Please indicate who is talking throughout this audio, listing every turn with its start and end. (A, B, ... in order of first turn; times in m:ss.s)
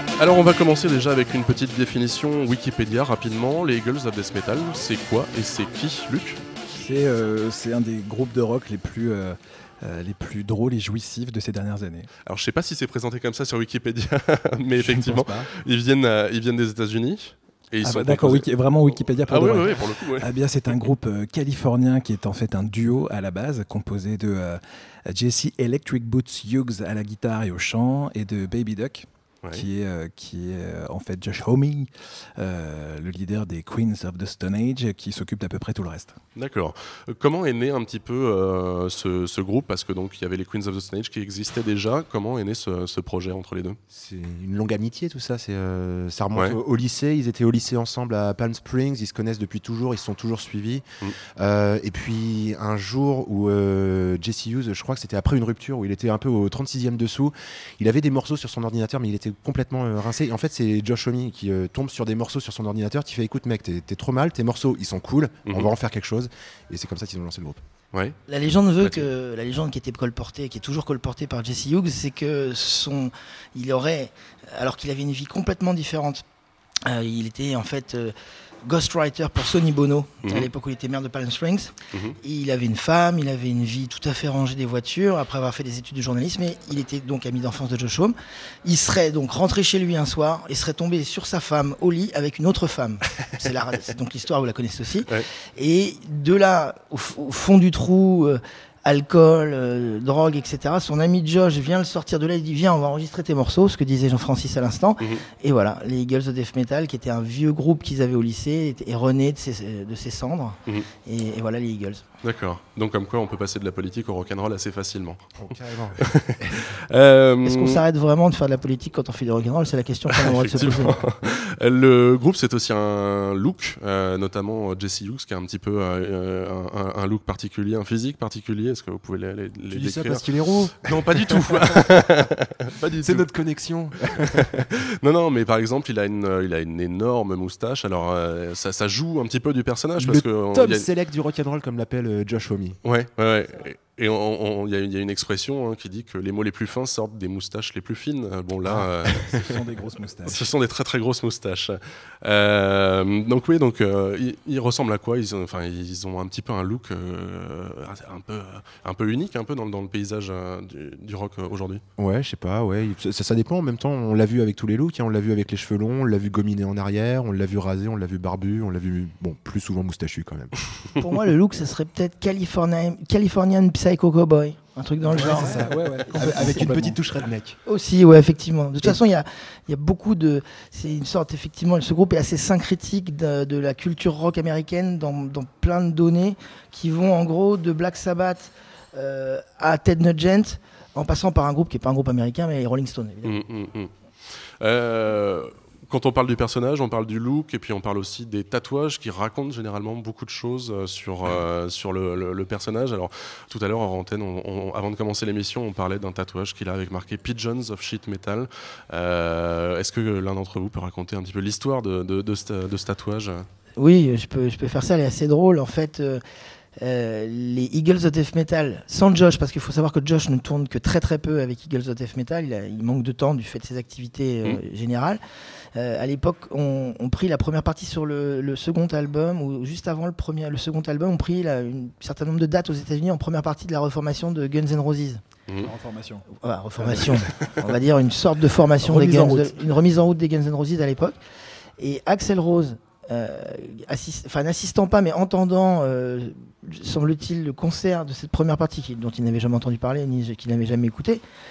0:00.2-0:06.4 A
0:06.7-0:12.1 B
0:12.2-0:20.9 A
0:14.7-0:15.5 B
0:17.8-0:36.2 B
0:36.3-0:43.8 A
0:43.9-0:50.8 C
0:51.4-1:07.6 C
1:05.5-1:05.7 A
1:08.3-1:16.2 D
1:08.8-1:09.0 A
1:16.9-1:28.1 D
1:20.2-1:20.5 A
1:21.9-1:22.2 A
1:28.6-1:52.0 D
1:52.2-1:57.8 A
1:55.4-1:56.6 C
1:57.4-2:01.0 D
2:00.1-2:10.2 A
2:09.7-2:11.9 C
2:10.8-2:13.2 A
2:13.0-2:14.5 C
2:14.3-2:20.9 A
2:20.0-2:22.8 C
2:22.8-2:29.3 A
2:29.1-2:30.5 B
2:30.2-2:41.8 A
2:42.0-2:50.5 C
2:51.0-2:56.9 D
2:55.1-2:57.0 B
2:55.1-2:57.6 C
2:57.6-3:13.4 D
3:13.2-3:13.9 A
3:14.6-3:33.4 A
3:33.8-3:36.2 D
3:36.8-3:45.2 D
3:45.7-3:55.2 D
3:55.6-3:57.8 B
3:56.4-4:01.2 D
3:58.8-3:59.5 B
4:01.8-4:11.2 D